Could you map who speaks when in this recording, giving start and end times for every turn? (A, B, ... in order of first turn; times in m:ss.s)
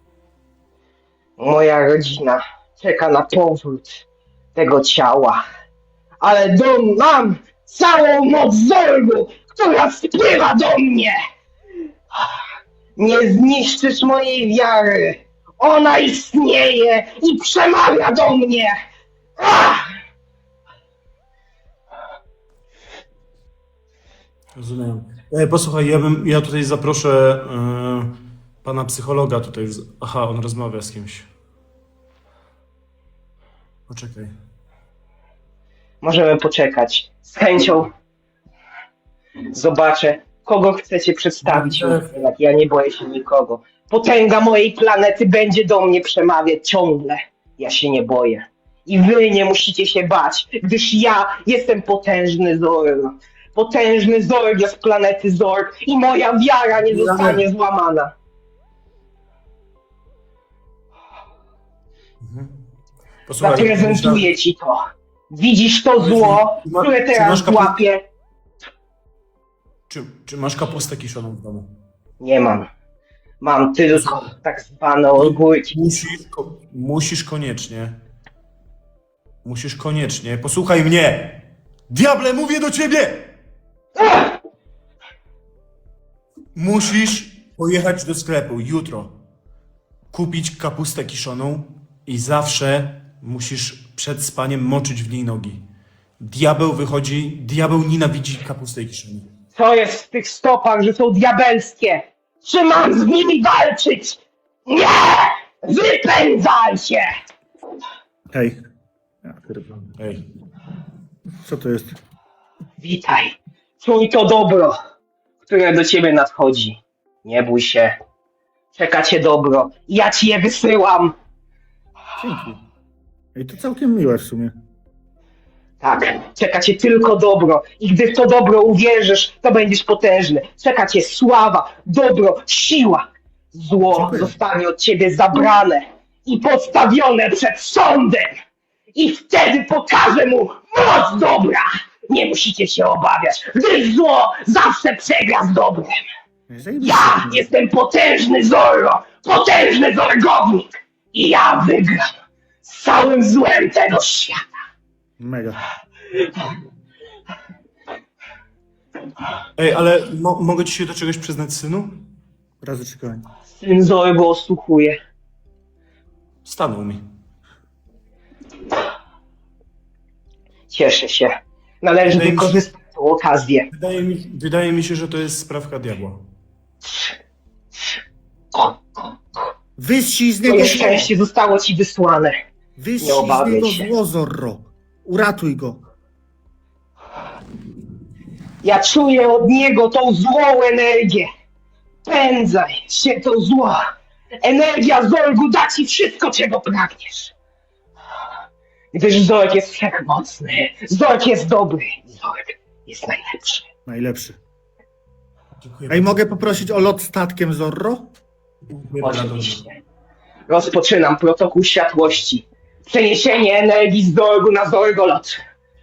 0:01.4-0:05.4 A
0:06.2-0:11.2 A
0:13.0-0:18.8 A
0:19.4-0:19.9 A
0:24.6-0:28.1 B
0:28.6-0:31.3 B
0:33.9-0:34.3 B
0:36.0-0:37.9 A
0:39.5-0:58.1 A
0:41.4-0:42.1 B
0:56.8-0:57.4 B
1:02.2-1:02.5 B
1:03.3-1:04.2 B
1:03.4-1:08.0 A
1:06.0-1:07.8 B
1:09.9-1:11.7 B
1:12.2-1:12.7 A
1:13.4-1:15.8 A
1:15.2-1:18.0 B
1:19.4-1:23.3 B
1:24.0-1:24.4 A
1:26.6-1:29.1 B
1:30.1-1:35.6 B
1:36.2-1:39.3 B
1:39.6-1:47.1 A
1:48.3-1:48.6 C
1:49.2-1:49.9 C
1:50.0-1:50.2 B
1:51.4-1:51.9 C
1:52.8-1:54.8 A
1:55.5-1:58.0 A
1:58.7-2:01.2 A
2:02.2-2:02.6 C
2:03.3-2:04.6 C
2:05.8-2:18.3 A
2:13.9-2:14.4 C
2:19.0-2:26.0 A
2:26.5-2:27.5 C
2:26.8-2:32.0 A
2:32.6-2:34.4 A
2:35.2-2:35.6 C
2:39.6-2:42.0 B
2:42.6-2:43.3 C
2:43.6-2:45.0 A
2:46.4-2:47.0 B
2:50.7-2:53.7 A
2:52.1-2:52.6 B
2:53.7-2:56.2 B
2:56.8-2:57.1 A
2:58.5-2:59.1 A
2:59.8-3:01.1 C
3:00.5-3:02.4 A
3:02.8-3:05.8 C
3:03.0-3:03.9 A
3:08.6-3:11.3 A
3:12.0-3:13.8 A
3:14.4-3:17.3 A
3:18.9-3:23.7 A
3:23.9-3:24.4 C
3:25.6-3:26.9 B
3:25.9-3:28.1 C
3:28.7-3:29.6 B
3:29.0-3:29.8 A
3:30.5-3:35.4 A